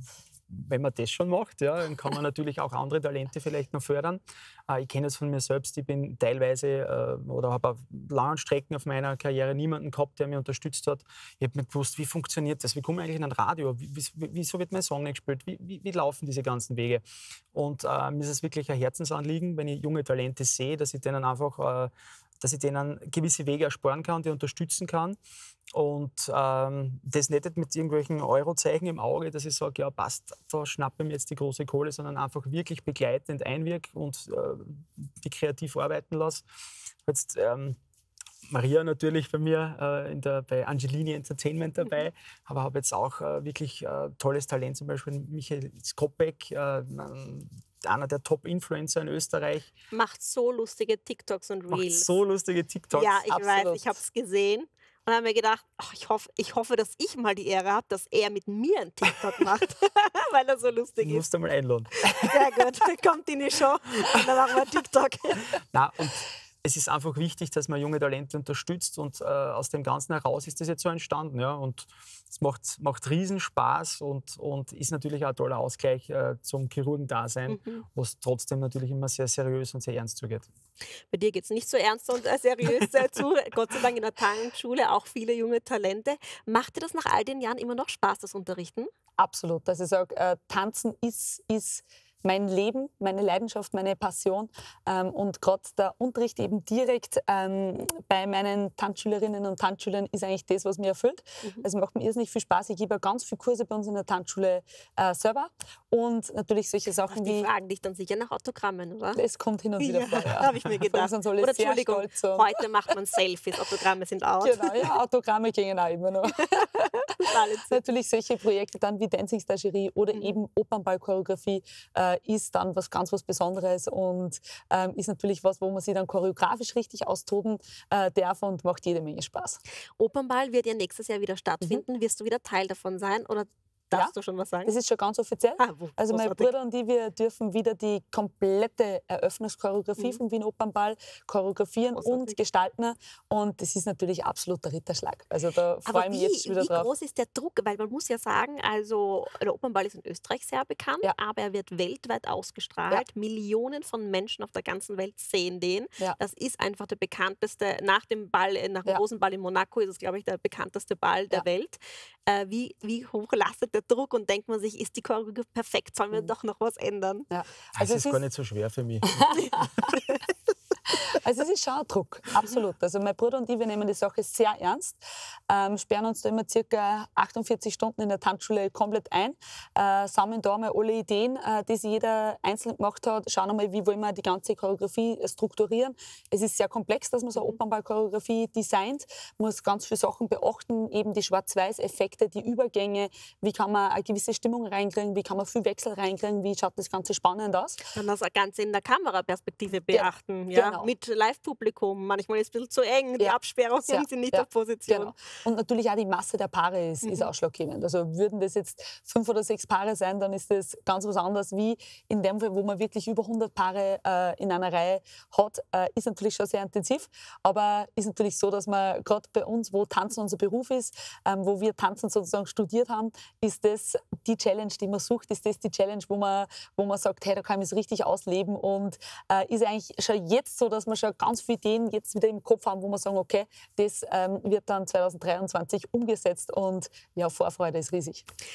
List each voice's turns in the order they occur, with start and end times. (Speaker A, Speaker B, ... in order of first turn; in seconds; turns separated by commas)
Speaker A: 0.5-17.0, Speaker A: 17.5-25.2, Speaker A: 25.7-36.4, Speaker A: 37.1-37.8, Speaker A: 38.5-49.7, Speaker B: 49.9-52.1, Speaker A: 51.7-53.5, Speaker B: 52.9-61.2, Speaker C: 53.5-53.8, Speaker A: 61.0-62.4, Speaker B: 62.3-65.3, Speaker A: 65.7-80.5, Speaker B: 77.5-77.8, Speaker B: 81.1-88.9, Speaker C: 89.2-107.5, Speaker B: 107.1-109.2, Speaker C: 109.1-112.5, Speaker B: 109.8-114.9, Speaker C: 114.4-117.0, Speaker B: 117.1-117.8, Speaker C: 117.7-129.6, Speaker B: 130.0-134.7, Speaker C: 134.6-146.9, Speaker B: 135.6-136.5, Speaker B: 141.9-142.4, Speaker B: 145.8-167.2, Speaker C: 167.3-168.2, Speaker A: 167.8-169.5, Speaker C: 169.1-169.9, Speaker C: 170.9-197.8, Speaker B: 197.9-205.1, Speaker C: 199.9-200.9, Speaker C: 203.2-238.2, Speaker B: 207.0-207.3